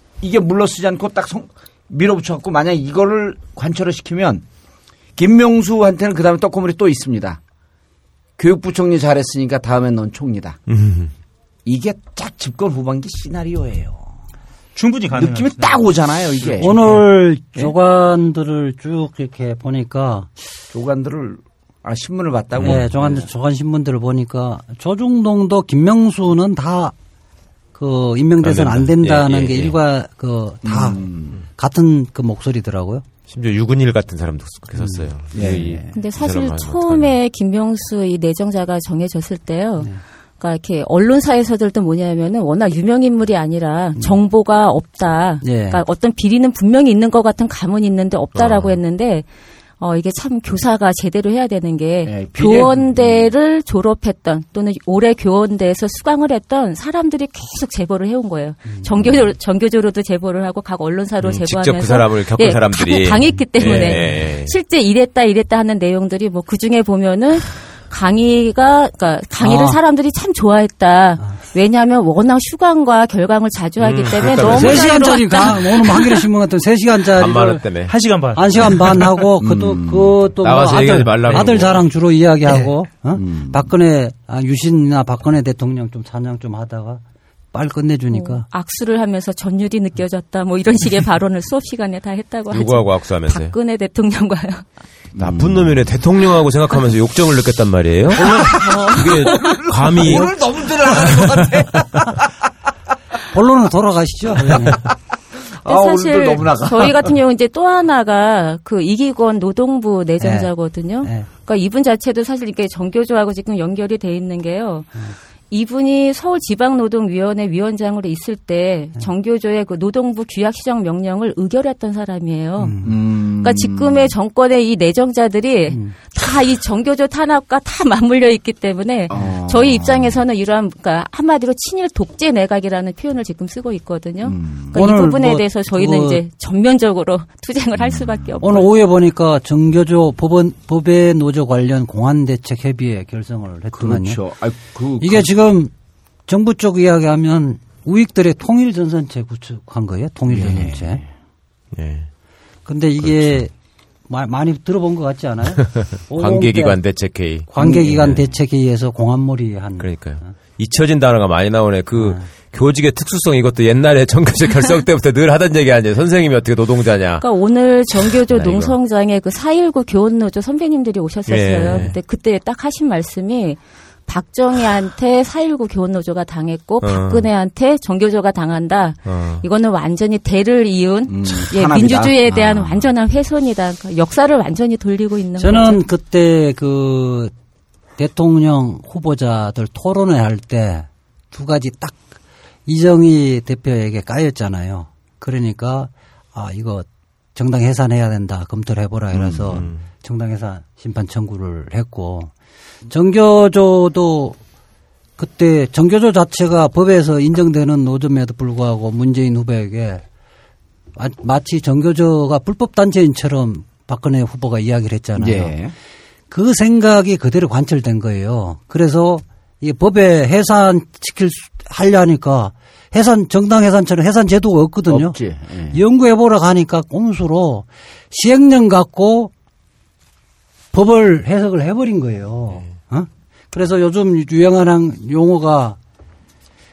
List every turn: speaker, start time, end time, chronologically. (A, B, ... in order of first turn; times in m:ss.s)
0:00.2-0:04.4 A
0:05.2-0:07.4 A
0:08.4-0:10.6 A
0:10.7-0:11.1 B
0:11.6-0:14.0 A
0:14.8-0:15.9 C
0:15.1-0:17.0 A
0:16.4-0:16.8 C
0:16.6-0:20.3 D
0:20.7-0:23.3 A
0:22.6-0:22.8 B
0:22.6-0:26.9 D
0:27.8-0:31.0 D
0:28.4-0:29.8 B
0:30.6-0:31.4 A
0:31.6-0:33.0 D
0:33.3-0:37.2 B
0:35.3-0:36.0 A
0:35.9-0:49.3 E
0:45.4-0:45.8 D
0:48.4-0:48.8 B
0:49.8-1:16.3 E
0:52.0-0:53.3 A
1:01.2-1:04.5 B
1:09.4-1:09.8 D
1:13.8-1:15.0 B
1:14.4-1:17.6 D
1:17.1-1:18.0 B
1:17.9-1:18.8 C
1:18.4-1:27.0 D
1:18.6-1:18.9 B
1:19.4-1:20.2 A
1:20.4-1:21.9 B
1:23.2-1:23.7 A
1:27.5-1:28.5 D
1:28.1-1:34.6 E
1:32.5-1:33.5 B
1:35.2-1:35.9 A
1:35.2-1:40.3 B
1:38.1-1:42.3 A
1:38.5-1:39.6 E
1:40.9-1:41.6 B
1:43.3-1:44.8 D
1:44.4-1:45.0 A
1:45.6-1:47.2 A
1:45.7-2:18.7 E
1:50.2-1:50.5 D
1:51.0-1:51.3 D
2:02.6-2:02.9 D
2:02.8-2:04.1 A
2:09.1-2:10.2 A
2:14.2-2:14.8 A
2:14.7-2:16.2 D
2:17.8-2:18.4 A
2:18.4-2:24.2 D
2:23.7-2:25.3 A
2:25.0-2:25.7 D
2:26.3-2:31.0 D
2:30.3-2:31.1 A
2:31.7-2:32.1 B
2:32.7-2:33.5 D
2:33.0-2:33.4 B
2:34.1-2:36.8 D
2:35.8-2:38.2 B
2:37.5-2:40.3 D
2:37.6-2:38.0 A
2:39.8-2:47.3 B
2:42.0-2:42.3 D
2:47.2-3:05.8 E
2:48.0-2:48.8 B
2:51.3-2:52.0 B
2:56.8-2:57.3 B
2:59.1-2:59.4 B
3:01.1-3:02.9 A
3:05.4-3:07.3 D
3:08.0-3:12.0 D
3:12.7-3:22.3 D
3:19.1-3:19.7 A
3:19.5-3:19.8 B
3:22.9-3:24.4 D
3:25.2-3:30.0 D
3:31.0-3:35.6 D
3:35.2-3:35.7 A
3:36.3-3:45.2 D
3:44.9-3:45.8 A
3:45.7-3:49.3 D
3:50.7-3:55.8 D